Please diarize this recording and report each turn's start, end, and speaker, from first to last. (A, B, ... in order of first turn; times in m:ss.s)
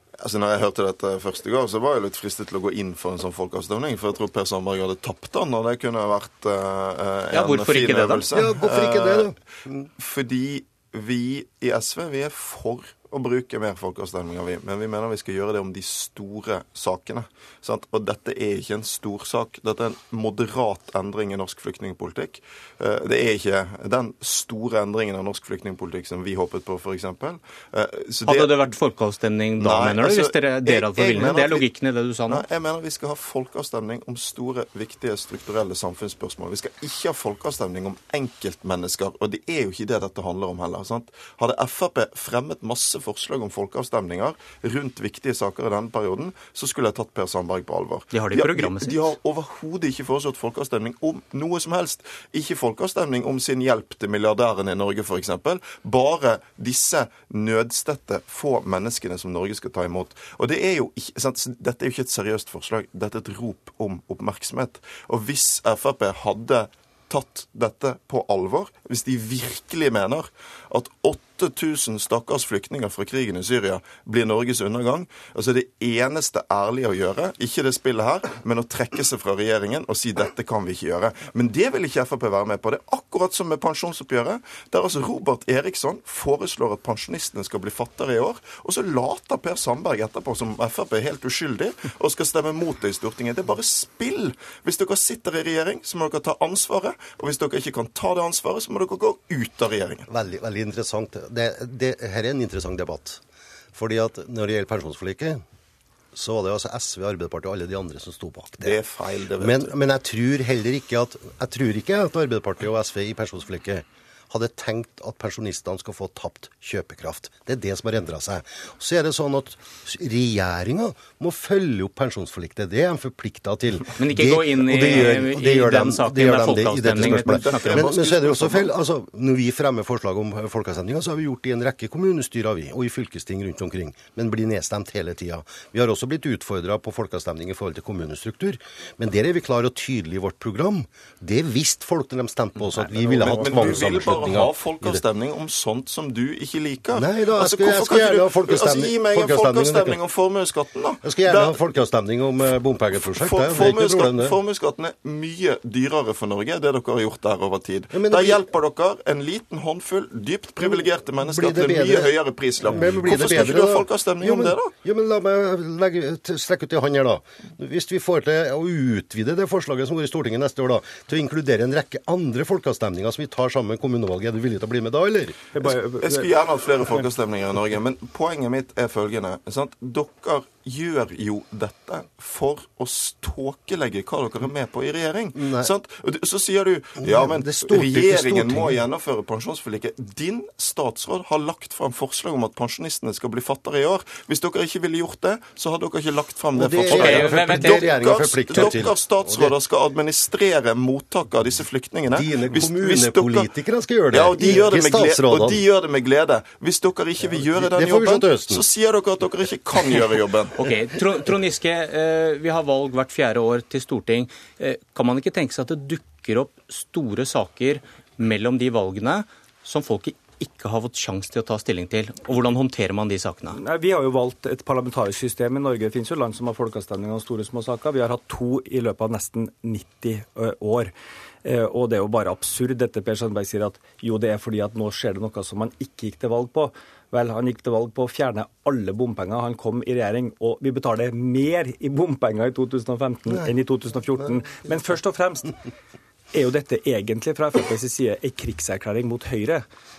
0:00.2-0:09.3 A
0:07.3-0:08.3 B
0:08.3-0:09.9 C
0:10.0-0:28.5 A
0:28.2-0:32.4 B
0:29.6-0:31.7 A
0:32.3-1:40.0 A
0:48.1-0:49.1 B
1:40.1-1:43.2 C
1:43.7-1:45.4 C
1:46.1-2:25.0 C
1:48.6-1:49.7 A
2:04.0-2:07.9 B
2:06.9-2:08.7 A
2:23.2-2:31.6 A
2:26.9-2:30.0 C
2:31.0-2:34.4 C
2:32.9-2:44.7 A
2:37.9-2:38.5 C
2:40.6-2:55.3 C
2:55.5-2:56.4 D
2:56.0-3:23.5 A
3:05.3-3:05.7 C
3:07.0-3:08.8 C
3:16.6-3:19.6 C
3:16.9-3:18.1 B
3:22.1-3:25.6 C
3:24.1-3:30.6 A
3:27.2-3:28.6 C
3:30.6-3:43.6 B
3:43.6-3:50.9 D
3:51.4-4:05.5 D
4:06.3-4:09.6 D